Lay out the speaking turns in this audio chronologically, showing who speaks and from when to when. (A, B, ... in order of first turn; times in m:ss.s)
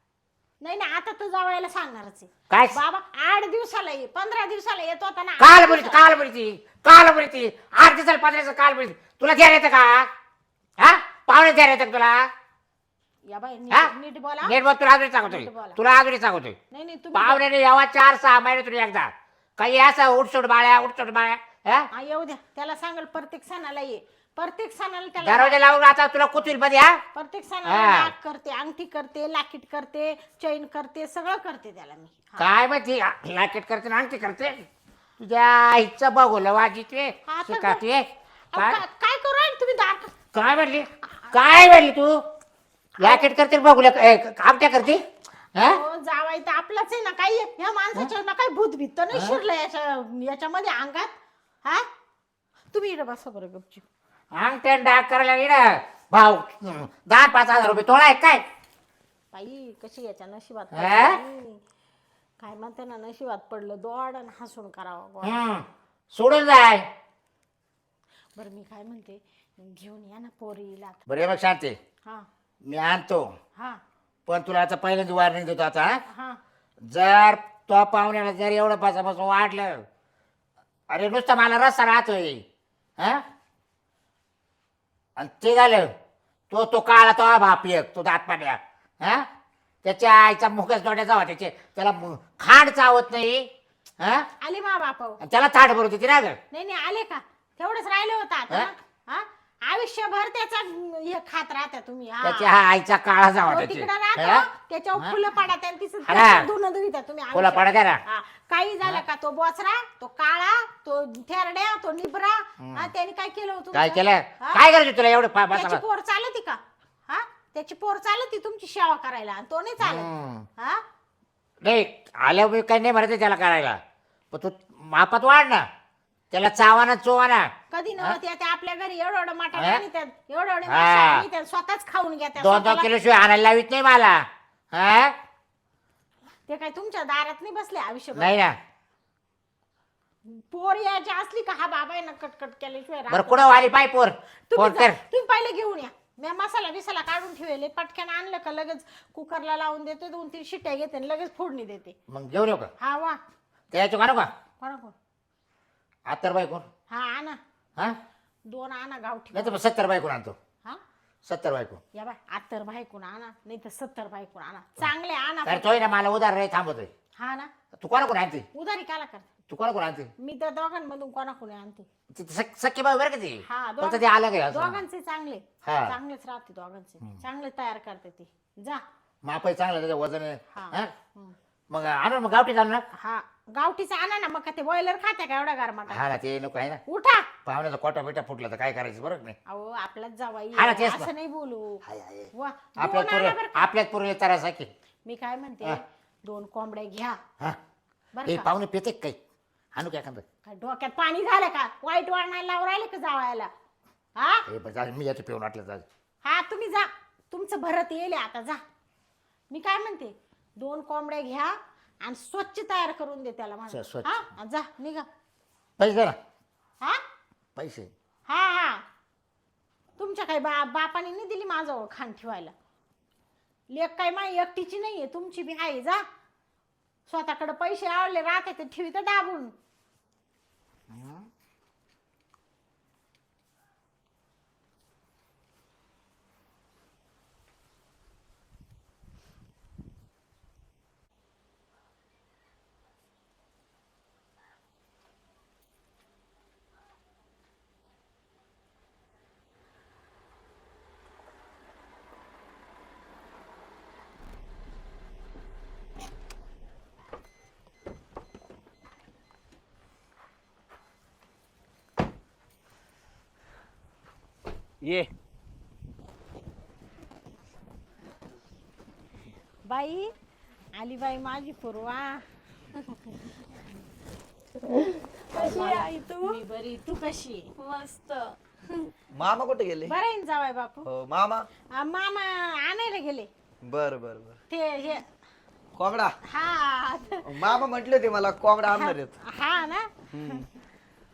0:00.6-0:06.0 A
0:02.5-0:02.8 B
0:05.4-0:10.1 B
0:10.8-0:12.3 B
0:13.3-0:14.6 A
0:14.4-0:16.6 B
0:15.2-0:15.8 A
0:16.7-0:17.4 A
0:17.1-0:21.9 B
0:21.9-0:25.6 A
0:25.2-0:27.0 B
0:27.1-0:32.5 A
0:27.7-0:28.1 B
0:32.4-0:34.7 B
0:35.2-0:38.8 B
0:37.3-0:37.8 A
0:38.5-0:40.2 A
0:40.3-0:42.2 B
0:41.0-0:41.9 A
0:43.0-0:43.3 A
0:43.0-0:45.8 B
0:45.6-0:51.9 A
0:49.1-0:49.4 B
0:52.7-0:53.8 A
0:54.3-0:58.4 B
0:59.3-1:01.6 A
1:00.7-1:01.2 B
1:02.4-1:05.4 A
1:05.2-1:06.9 B
1:08.4-1:11.0 A
1:11.1-1:11.8 B
1:12.6-1:13.4 B
1:14.3-1:16.0 B
1:16.1-1:16.4 A
1:16.8-1:19.9 B
1:20.9-1:22.4 B
1:23.0-1:23.2 B
1:25.2-1:25.9 B
1:26.5-1:29.3 B
1:29.8-1:34.3 B
1:34.4-1:35.2 A
1:35.2-1:36.4 B
1:36.5-1:42.5 A
1:42.2-1:44.5 B
1:43.5-1:54.6 A
1:46.1-1:46.5 B
1:47.3-1:48.0 B
1:52.6-1:52.9 B
1:53.7-1:55.8 B
1:55.5-2:00.8 A
1:59.8-2:00.5 B
2:01.6-2:05.7 B
2:06.3-2:08.2 B
2:07.7-2:12.9 A
2:09.6-2:09.8 B
2:10.7-2:11.3 B
2:12.4-2:15.2 B
2:16.5-2:18.4 A
2:18.2-2:18.6 B
2:20.2-2:23.7 A
2:23.1-2:25.0 B
2:24.5-2:32.0 A
2:32.1-2:32.7 B
2:32.8-2:33.2 A
2:33.7-2:34.3 B
2:34.6-2:35.0 A
2:36.1-2:36.7 B
2:36.9-2:37.4 A
2:38.5-2:39.6 A
2:39.3-2:40.4 B
2:41.2-2:41.8 B
2:41.9-2:45.7 A
2:45.4-2:46.9 B
2:47.2-2:47.5 A
2:47.7-2:48.4 B
2:48.5-2:49.3 A
2:49.5-2:50.1 B
2:50.2-2:51.9 A
2:52.1-2:54.8 B
2:53.4-2:58.8 A
2:55.6-2:56.0 B
2:59.2-3:00.9 B
3:00.5-3:01.4 A
3:01.7-3:02.8 B
3:02.9-3:06.0 A
3:05.9-3:06.8 B
3:06.9-3:07.3 A
3:07.5-3:09.4 B
3:09.5-3:11.8 A
3:10.6-3:11.1 B
3:11.9-3:12.3 B
3:12.3-3:13.7 A
3:12.8-3:14.7 B
3:15.0-3:17.2 A
3:18.2-3:18.5 A
3:18.3-3:19.2 B
3:19.8-3:20.2 B
3:20.4-3:23.5 A
3:24.2-3:24.4 A
3:24.5-3:25.9 B
3:26.2-3:28.6 A
3:29.5-3:35.1 A
3:33.7-3:34.1 B
3:35.8-3:36.2 B
3:37.6-3:37.9 B
3:38.3-3:38.8 A
3:40.0-3:42.5 A
3:43.7-3:46.1 A
3:47.1-3:49.5 A
3:50.9-3:51.3 B
4:24.8-4:25.1 C
4:29.7-4:30.1 A
4:30.8-4:32.2 A
4:35.3-4:36.4 D
4:35.3-4:37.5 A
4:37.6-4:38.9 D
4:39.1-4:40.0 C
4:39.9-4:40.9 A
4:40.8-4:41.5 C
4:41.8-4:43.3 A
4:43.6-4:44.4 C
4:44.5-4:45.0 A
4:45.8-4:46.2 C
4:46.3-4:47.6 A
4:47.3-4:49.2 C
4:48.7-4:50.4 A
4:50.1-4:50.5 C